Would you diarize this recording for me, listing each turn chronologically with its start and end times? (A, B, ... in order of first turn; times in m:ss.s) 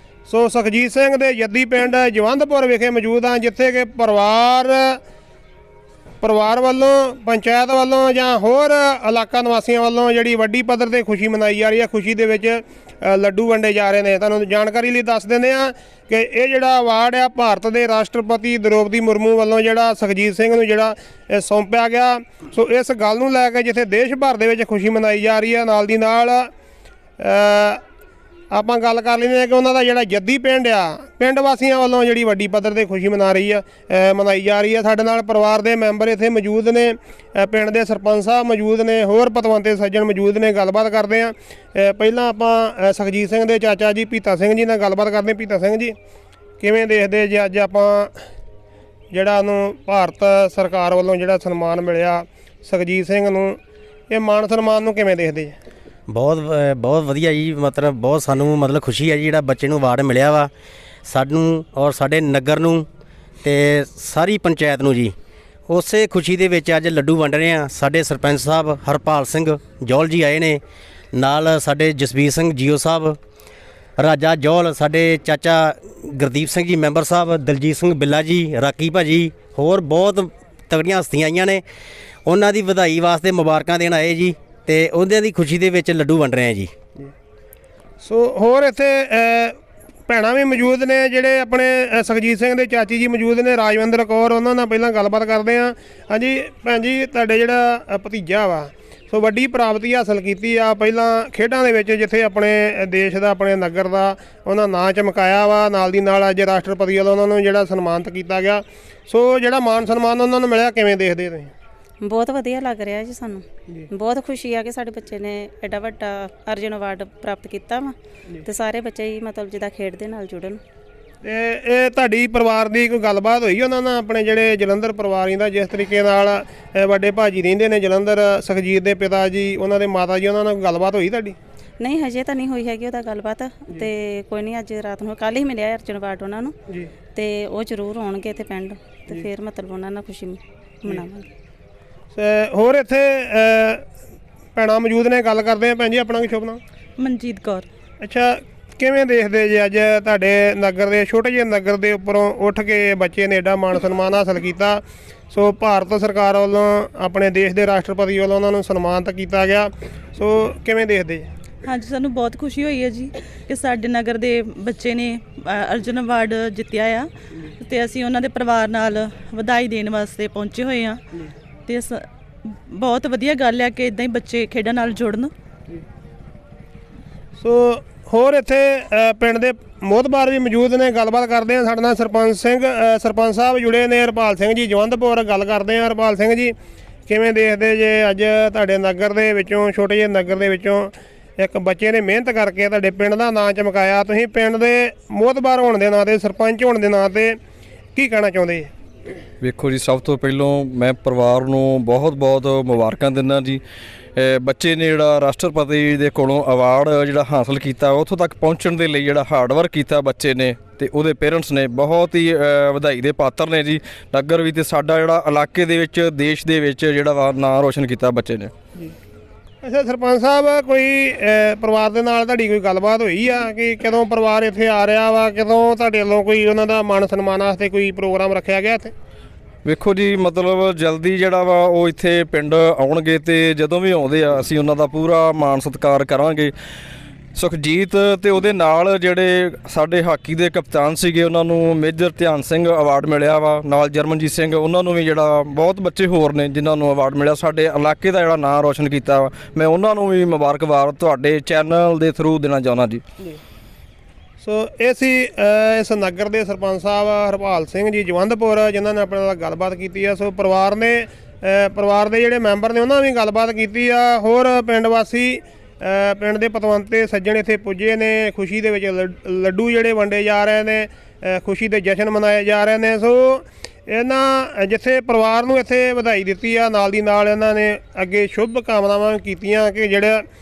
0:00.3-0:05.0 A
0:06.2-0:26.5 A
0:27.2-0:27.8 A
0:28.5-0:46.0 A
0:46.6-0:48.2 A
0:49.1-0:53.6 A
0:54.1-0:55.6 A
0:56.1-1:00.5 B
1:01.1-1:02.9 B
1:03.4-1:05.1 B
1:05.7-1:10.6 B
1:11.1-1:13.2 B
1:14.0-1:21.6 B
1:22.3-1:26.7 B
1:28.0-1:51.5 A
1:52.0-1:57.9 C
1:58.4-2:00.6 C
2:01.2-2:11.4 A
2:11.8-2:16.5 C
2:17.2-2:21.3 C
2:22.1-2:23.8 A
2:24.6-2:26.6 A
2:27.0-2:27.7 D
2:28.0-2:41.3 A
2:41.6-2:47.1 D
2:47.6-2:51.0 D
2:51.7-2:52.0 D
2:52.7-2:55.3 D
2:57.4-3:06.6 A
3:07.1-3:17.4 A
3:18.0-3:18.7 A
3:19.4-3:23.6 E
3:24.2-3:38.5 E
3:39.6-3:48.9 A
3:49.6-3:56.5 E
3:57.4-4:13.0 E
4:14.4-4:40.2 A